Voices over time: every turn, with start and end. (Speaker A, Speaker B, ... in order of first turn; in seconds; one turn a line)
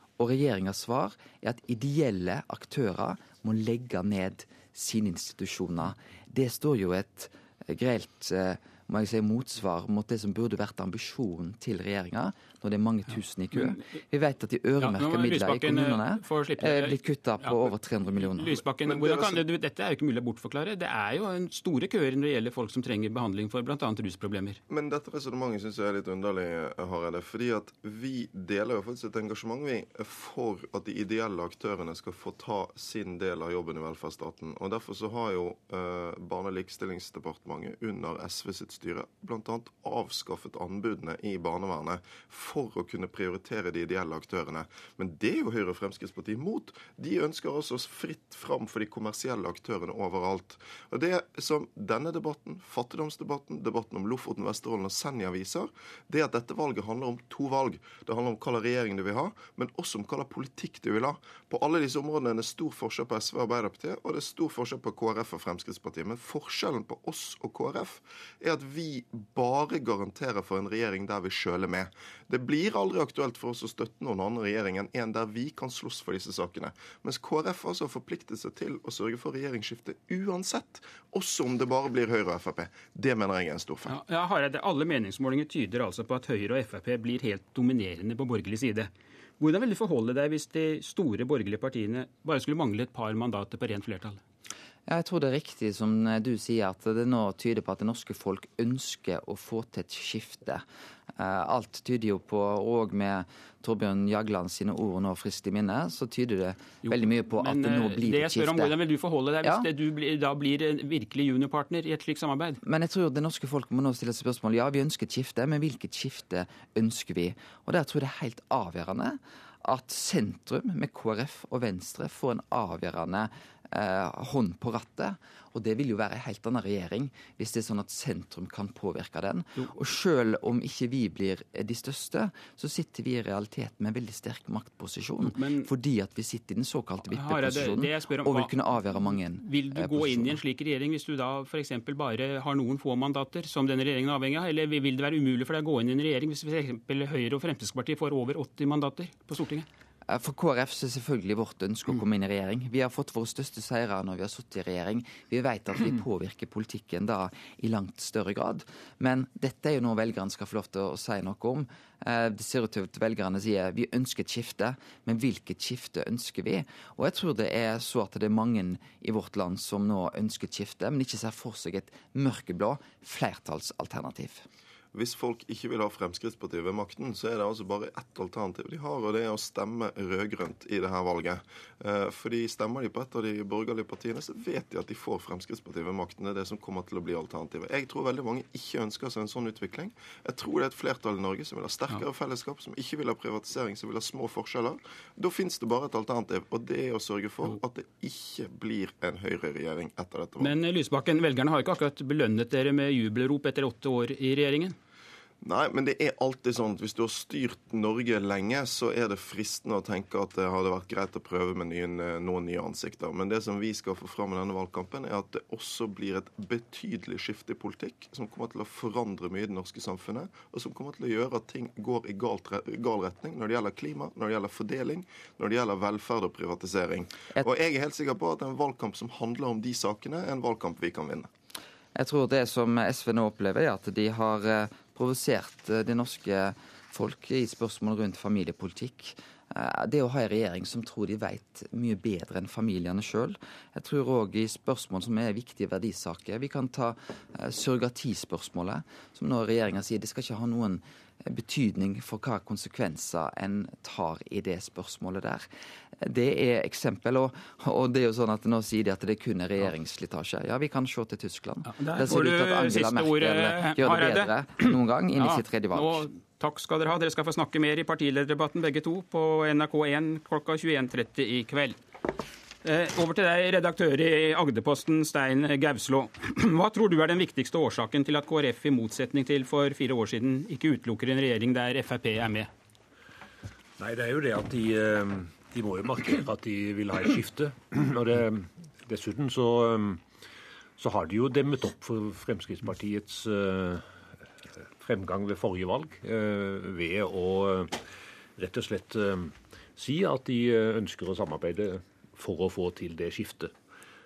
Speaker A: 0.2-18.6
Speaker B: 13.5-13.8
Speaker B: 14.8-24.6
Speaker C: 18.8-19.4
Speaker C: 24.7-83.9
Speaker B: 83.9-94.2
Speaker A: 94.9-100.6
Speaker A: 101.2-108.8
Speaker B: 106.8-112.6
Speaker A: 109.4-109.7
Speaker A: 112.6-140.4
Speaker B: 135.2-135.7
Speaker B: 137.1-149.7
Speaker A: 150.1-174.4
Speaker C: 174.9-200.5
Speaker B: 200.4-204.8
Speaker C: 205.4-231.3
Speaker A: 231.9-255.4
Speaker A: 256.0-266.0
Speaker B: 261.6-271.8
Speaker B: 272.6-282.5
Speaker D: 283.8-290.0
Speaker D: 290.8-293.8
Speaker D: 294.8-297.8
Speaker D: 298.4-303.5